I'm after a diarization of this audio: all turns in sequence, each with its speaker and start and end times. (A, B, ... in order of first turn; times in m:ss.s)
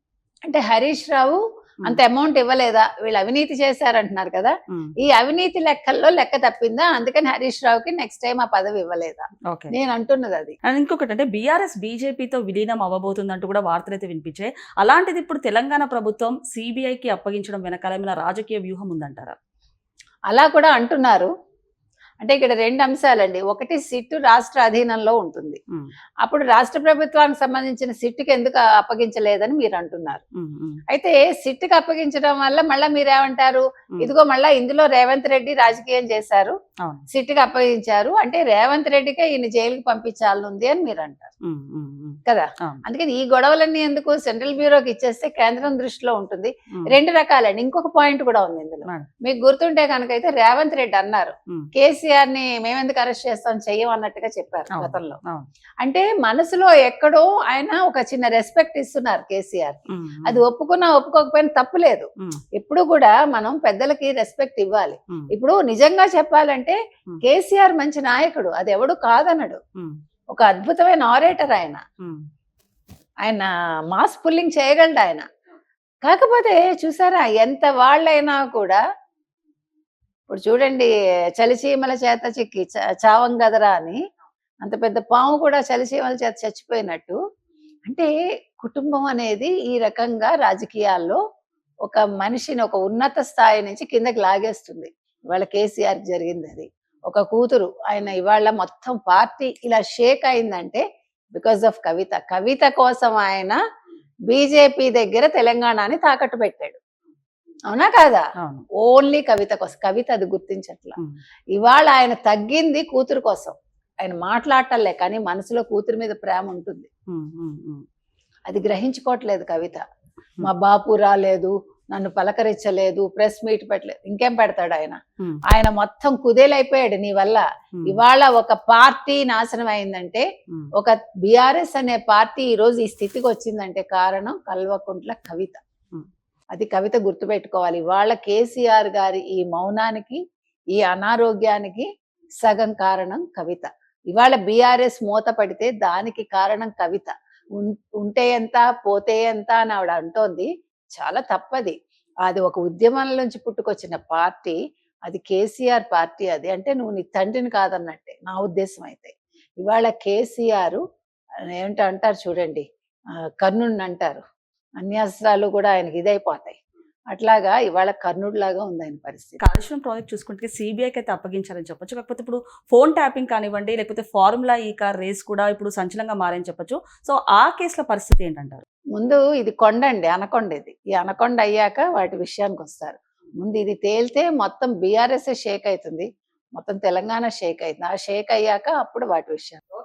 0:00.4-0:10.6 A
0:09.5-0:09.7 B
0:10.6-0:19.4 B
0:20.3-0:21.3 A
0:22.2-0:25.6 A
0:26.2-0:30.2 A
0:30.4-0:30.8 B
0:30.9-0:36.5 A
0:37.1-0:41.3 A
0:41.4-0:42.8 B
0:42.2-0:55.2 A
0:54.7-0:55.4 B
0:55.8-1:09.6 A
0:59.9-1:00.4 B
1:10.3-1:11.8 A
1:13.2-1:15.2 A
1:16.0-1:18.8 A
1:20.3-1:24.0 A
1:24.6-1:27.2 A
1:27.9-1:31.2 A
1:31.8-1:40.8 A
1:41.3-1:43.6 A
1:44.3-1:46.8 A
1:47.7-1:48.2 A
1:48.4-1:48.6 B
1:48.8-1:51.0 A
1:51.5-1:56.9 A
1:57.1-1:57.8 B
1:58.5-1:59.8 A
2:00.4-2:10.2 A
2:10.8-2:15.6 A
2:16.5-2:20.2 A
2:20.7-2:21.8 A
2:22.4-2:40.8 A
2:41.5-2:42.6 A
2:43.4-2:44.2 A
2:44.8-2:46.6 A
2:47.1-2:49.4 A
2:49.4-2:58.6 B
2:59.0-3:09.6 A